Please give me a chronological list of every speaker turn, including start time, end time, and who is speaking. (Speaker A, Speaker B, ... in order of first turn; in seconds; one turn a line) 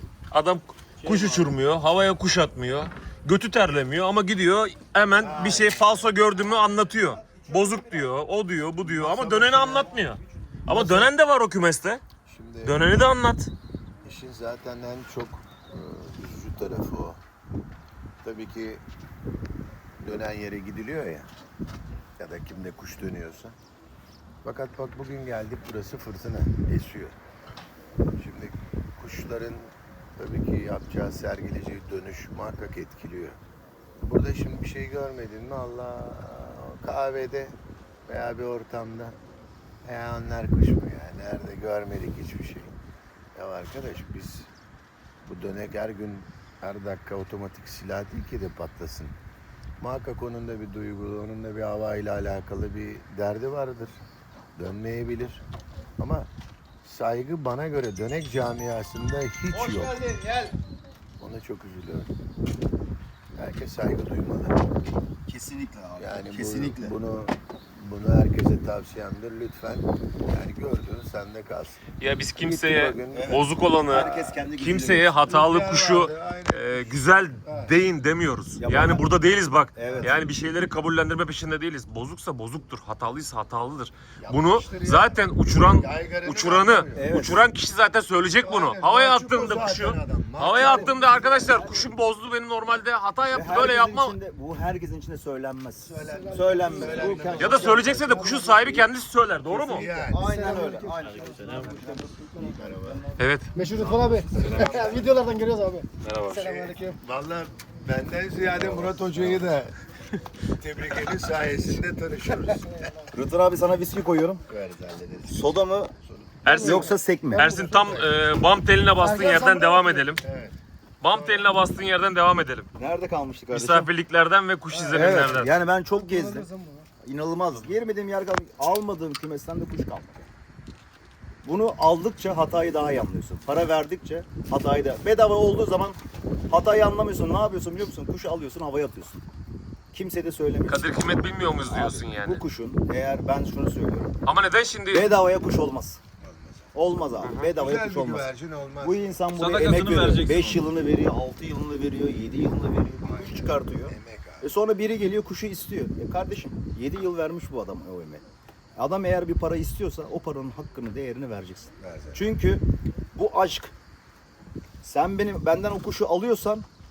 Speaker A: 0.3-12.0
Speaker B: 1.0-1.6
Speaker C: 5.2-6.1
Speaker B: 6.6-8.1
Speaker C: 8.8-9.9
Speaker B: 9.5-10.2
Speaker C: 10.7-11.1
Speaker C: 12.2-12.9
Speaker A: 12.6-13.5
Speaker C: 14.0-17.2
Speaker C: 18.2-18.8
Speaker C: 20.0-21.3
Speaker C: 22.2-23.6
Speaker C: 24.4-27.1
Speaker C: 28.2-33.4
Speaker C: 34.0-39.2
Speaker C: 39.9-42.8
Speaker C: 43.4-44.5
Speaker C: 45.2-49.1
Speaker C: 49.8-54.0
Speaker C: 54.6-55.4
Speaker C: 56.0-56.3
Speaker C: 56.8-60.0
Speaker B: 59.5-60.6
Speaker C: 61.2-62.1
Speaker C: 63.4-64.6
Speaker B: 65.3-67.0
Speaker C: 66.0-71.8
Speaker A: 72.0-94.2
Speaker C: 72.4-73.5
Speaker B: 73.1-75.1
Speaker C: 75.2-77.7
Speaker B: 78.6-79.1
Speaker B: 79.8-80.2
Speaker C: 84.2-87.0
Speaker B: 86.9-87.4
Speaker C: 88.4-91.7
Speaker B: 90.5-91.9
Speaker B: 93.3-98.6
Speaker C: 95.8-98.2
Speaker D: 96.1-98.4
Speaker A: 97.4-99.9
Speaker C: 99.5-100.3
Speaker B: 100.0-103.2
Speaker D: 100.2-101.8
Speaker C: 102.4-103.0
Speaker A: 103.2-103.6
Speaker D: 103.5-107.0
Speaker C: 103.6-105.3
Speaker A: 104.3-105.2
Speaker A: 106.0-106.8
Speaker C: 106.8-109.8
Speaker B: 108.6-109.5
Speaker C: 110.5-112.9
Speaker B: 113.1-114.4
Speaker C: 114.5-115.5
Speaker B: 115.3-115.9
Speaker C: 116.0-116.4
Speaker A: 116.4-120.2
Speaker D: 116.5-116.9
Speaker B: 116.5-117.5
Speaker C: 117.5-118.3
Speaker D: 119.0-119.8
Speaker C: 120.2-120.6
Speaker A: 121.0-122.7
Speaker C: 121.1-121.5
Speaker B: 122.8-123.9
Speaker A: 123.5-125.5
Speaker C: 124.8-125.3
Speaker B: 124.9-126.5
Speaker D: 126.1-126.9
Speaker B: 127.0-130.3
Speaker B: 131.4-136.0
Speaker B: 136.5-139.2
Speaker B: 139.9-144.1
Speaker A: 140.7-142.4
Speaker A: 144.2-145.1
Speaker B: 144.9-146.0
Speaker C: 146.2-146.8
Speaker B: 146.7-148.3
Speaker A: 147.2-147.5
Speaker C: 147.4-149.5
Speaker B: 148.8-158.2
Speaker D: 149.3-150.6
Speaker A: 149.5-150.3
Speaker C: 153.0-154.5
Speaker B: 158.8-162.6
Speaker C: 161.8-162.3
Speaker B: 163.1-163.7
Speaker B: 164.8-166.7